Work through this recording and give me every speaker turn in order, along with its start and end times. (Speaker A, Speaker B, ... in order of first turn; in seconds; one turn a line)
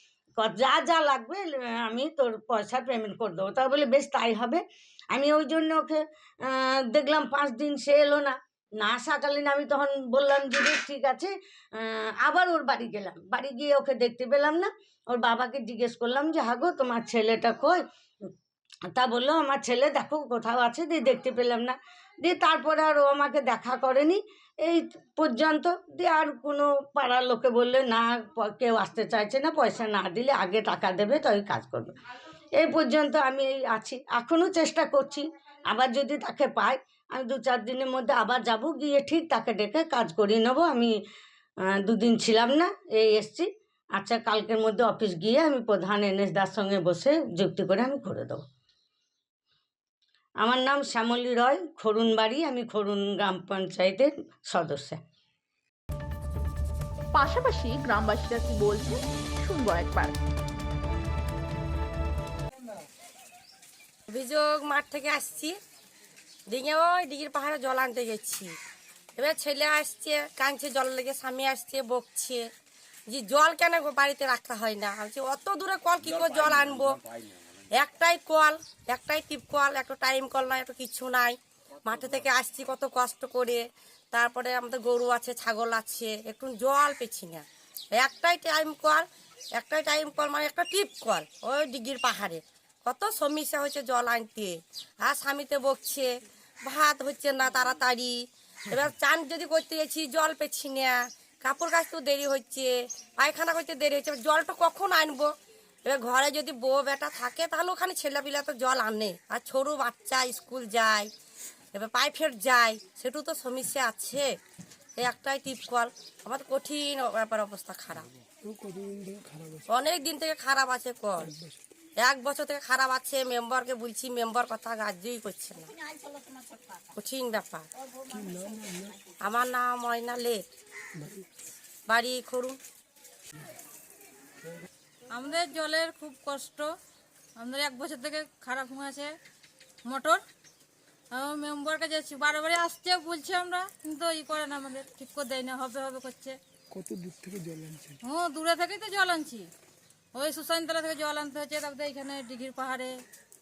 Speaker A: 0.4-17.8
Speaker A: 18.9-31.9
Speaker A: 32.6-40.9
Speaker A: 41.8-48.4
Speaker A: 50.4-55.0
Speaker B: 57.1-60.1
Speaker C: 64.1-65.6
Speaker C: 66.5-68.5
Speaker C: 69.2-72.4
Speaker C: 73.1-77.0
Speaker C: 77.7-89.0
Speaker C: 89.6-96.1
Speaker C: 96.6-98.2
Speaker C: 98.7-105.3
Speaker C: 105.8-111.1
Speaker C: 111.7-114.3
Speaker C: 115.0-118.1
Speaker D: 118.4-119.6
Speaker C: 119.7-121.3
Speaker D: 121.2-121.6
Speaker C: 122.0-125.7
Speaker C: 127.0-127.7
Speaker D: 128.1-129.0
Speaker C: 129.2-130.4
Speaker D: 131.0-131.3
Speaker C: 131.9-132.6
Speaker E: 135.1-136.8
Speaker E: 137.3-139.2
Speaker E: 139.8-140.2
Speaker E: 141.1-146.4
Speaker D: 146.7-148.0
Speaker E: 148.0-149.5
Speaker E: 150.1-153.0